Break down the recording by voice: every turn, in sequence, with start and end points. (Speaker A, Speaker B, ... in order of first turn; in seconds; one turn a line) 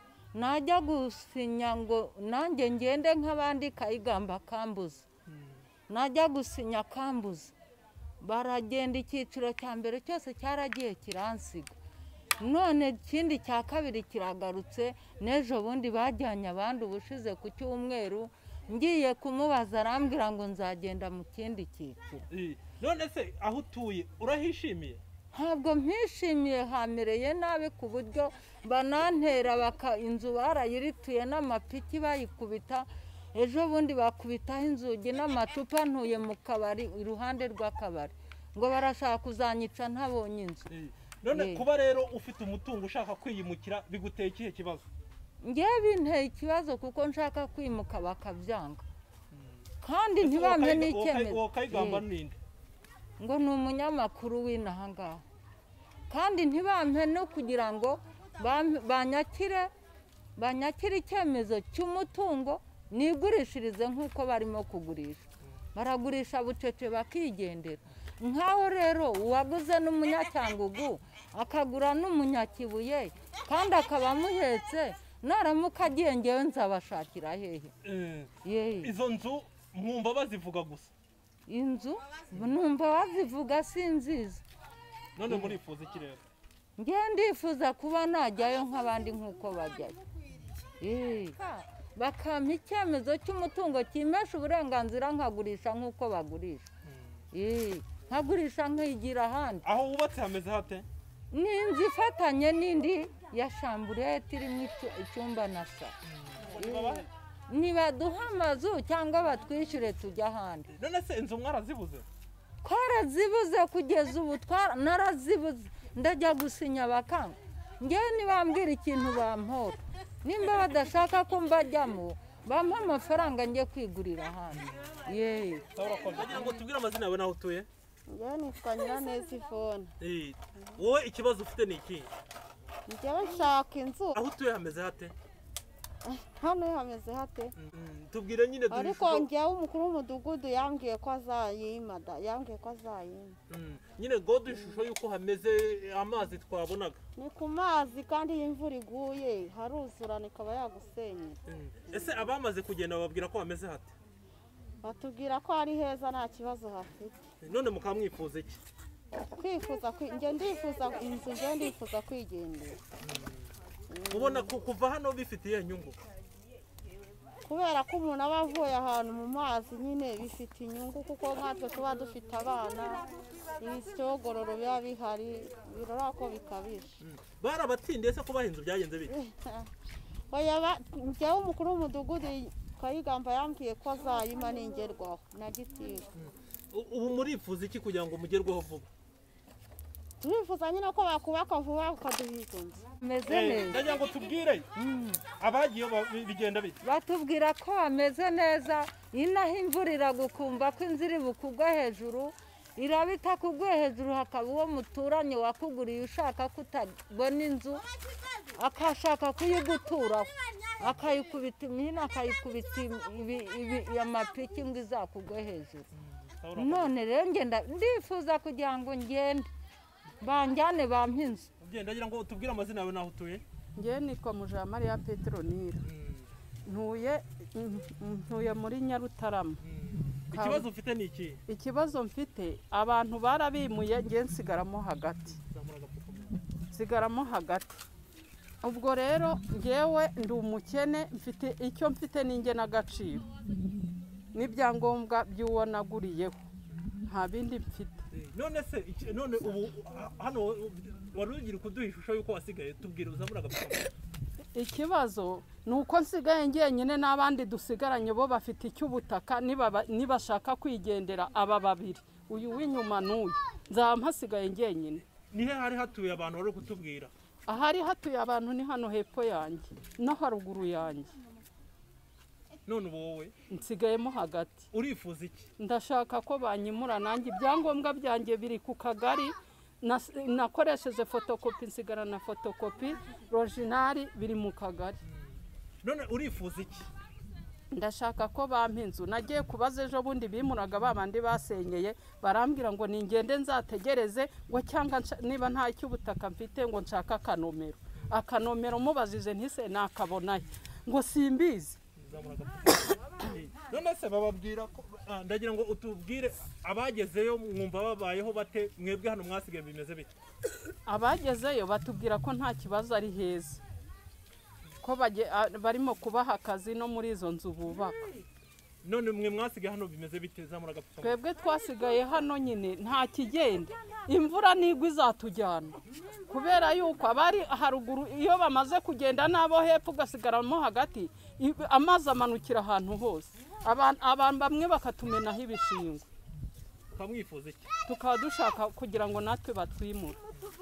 Speaker A: 0.3-5.1
Speaker B: 5.3-5.6
Speaker A: 5.9-7.5
Speaker A: 8.2-11.8
Speaker A: 12.4-22.3
Speaker B: 22.3-25.0
Speaker A: 25.3-40.7
Speaker B: 40.7-44.9
Speaker A: 41.3-41.6
Speaker A: 45.4-48.9
Speaker A: 49.8-52.0
Speaker B: 50.2-52.4
Speaker A: 53.2-55.2
Speaker A: 56.1-59.7
Speaker A: 60.4-77.8
Speaker B: 77.8-80.9
Speaker A: 78.4-78.9
Speaker A: 81.5-84.5
Speaker B: 85.2-86.2
Speaker A: 85.3-85.6
Speaker A: 86.8-90.0
Speaker A: 90.8-96.7
Speaker B: 96.9-97.1
Speaker A: 97.3-99.6
Speaker B: 99.6-100.9
Speaker A: 101.3-106.0
Speaker B: 106.0-107.1
Speaker A: 106.5-110.7
Speaker B: 110.7-112.1
Speaker A: 112.6-125.7
Speaker B: 125.8-127.7
Speaker C: 128.1-129.9
Speaker B: 130.0-132.1
Speaker C: 132.9-134.2
Speaker B: 134.1-135.2
Speaker C: 136.0-137.5
Speaker B: 137.6-139.3
Speaker C: 138.7-143.4
Speaker B: 143.5-147.0
Speaker C: 147.2-151.4
Speaker B: 151.5-153.9
Speaker C: 154.8-157.3
Speaker B: 157.4-158.6
Speaker C: 159.3-162.8
Speaker B: 163.0-163.5
Speaker C: 163.9-164.5
Speaker B: 164.1-166.0
Speaker C: 167.4-177.0
Speaker B: 177.0-179.2
Speaker C: 179.1-179.7
Speaker C: 180.3-186.1
Speaker B: 186.2-188.9
Speaker C: 190.2-192.9
Speaker A: 193.0-193.8
Speaker B: 193.3-194.7
Speaker A: 194.8-195.2
Speaker B: 195.4-196.8
Speaker A: 196.8-207.8
Speaker A: 208.5-215.9
Speaker B: 215.9-216.9
Speaker A: 216.6-219.5
Speaker A: 220.2-221.5
Speaker B: 221.6-223.4
Speaker D: 223.8-225.8
Speaker B: 225.8-226.3
Speaker D: 226.7-229.6
Speaker B: 229.6-231.4
Speaker D: 230.3-230.7
Speaker D: 231.5-235.4
Speaker B: 235.4-236.4
Speaker D: 236.7-237.8
Speaker D: 238.6-243.3
Speaker D: 244.3-246.4
Speaker D: 247.0-248.0
Speaker B: 248.1-253.9
Speaker D: 254.5-265.1
Speaker B: 265.1-267.1
Speaker D: 267.5-271.2
Speaker B: 272.7-273.4
Speaker D: 273.5-274.6
Speaker B: 274.7-275.5
Speaker D: 275.6-285.0
Speaker B: 285.1-286.9
Speaker D: 287.7-301.8
Speaker B: 302.0-310.1
Speaker D: 310.9-313.6
Speaker D: 314.8-318.1
Speaker B: 318.8-321.2
Speaker D: 321.0-336.1
Speaker B: 336.9-337.7
Speaker D: 337.9-340.2